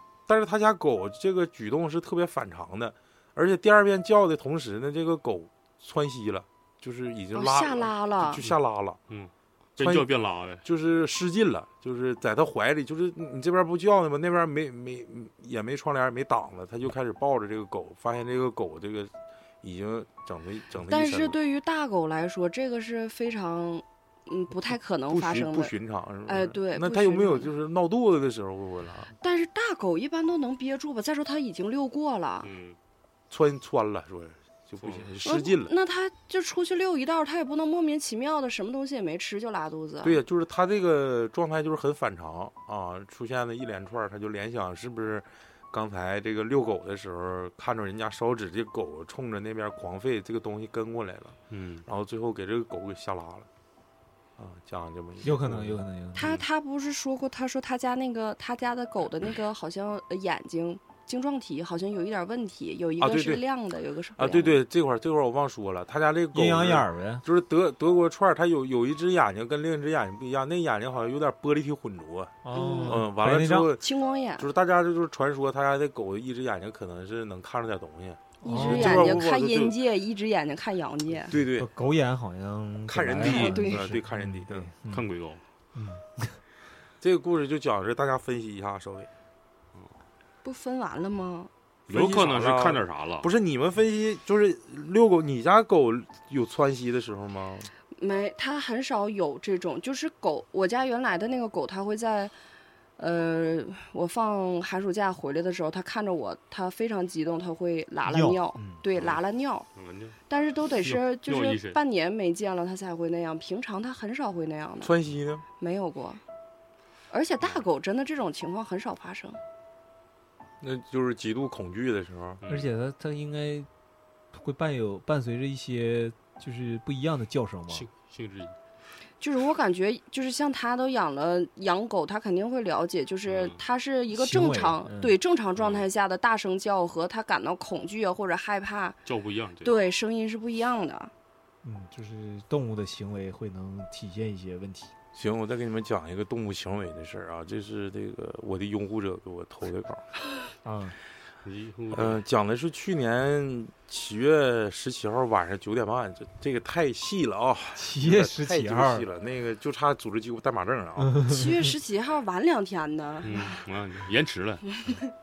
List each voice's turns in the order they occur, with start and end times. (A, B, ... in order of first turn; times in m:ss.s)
0:00.3-0:09.0 A
0:07.3-0:08.4 B
0:09.1-0:10.6 C
0:09.8-0:10.1 A
0:10.6-0:21.4 A
0:20.9-0:25.7 B
0:25.1-0:29.1 A
0:26.3-0:27.5 B
0:29.2-0:32.5 B
0:32.4-0:32.8 C
0:33.3-0:35.7 A
0:34.8-0:35.1 C
0:35.2-0:40.2 B
0:40.0-0:53.5 A
0:51.5-0:51.8 C
0:54.4-0:55.8 A
0:55.2-0:56.3 D
0:56.2-1:04.6 B
0:56.2-0:56.5 C
1:03.0-1:03.4 A
1:04.2-1:19.8 A
1:06.3-1:07.2 D
1:12.4-1:13.7 D
1:12.5-1:13.1 B
1:13.8-1:14.5 B
1:18.4-1:19.1 D
1:18.4-1:21.4 B
1:21.3-1:21.7 A
1:21.3-1:25.1 D
1:22.9-1:24.7 A
1:23.2-1:23.9 B
1:24.9-1:25.4 C
1:25.7-1:26.4 D
1:27.0-1:29.1 A
1:30.4-1:31.5 B
1:31.9-1:37.7 A
1:31.9-1:33.3 C
1:38.0-1:42.3 B
1:43.0-1:49.7 B
1:48.0-1:48.7 D
1:48.9-1:49.2 C
1:49.8-1:50.2 C
1:50.3-1:54.9 B
1:50.7-1:51.8 C
1:54.8-1:55.4 A
1:55.6-1:56.2 B
1:57.1-1:59.4 B
1:57.4-1:57.7 C
2:00.6-2:02.4 A
2:02.4-2:02.7 C
2:02.5-2:03.7 D
2:04.3-2:07.9 D
2:07.7-2:08.6 C
2:09.2-2:19.0 B
2:13.2-2:13.6 C
2:14.1-2:15.2 D
2:15.6-2:15.9 C
2:19.1-2:19.8 C
2:19.6-2:21.1 B
2:21.6-2:24.9 D
2:25.1-2:30.0 A
2:30.6-2:31.0 D
2:31.4-2:32.2 C
2:31.9-2:41.2 A
2:37.8-2:39.1 D
2:41.0-2:41.5 D
2:41.3-2:43.6 B
2:43.2-2:44.9 C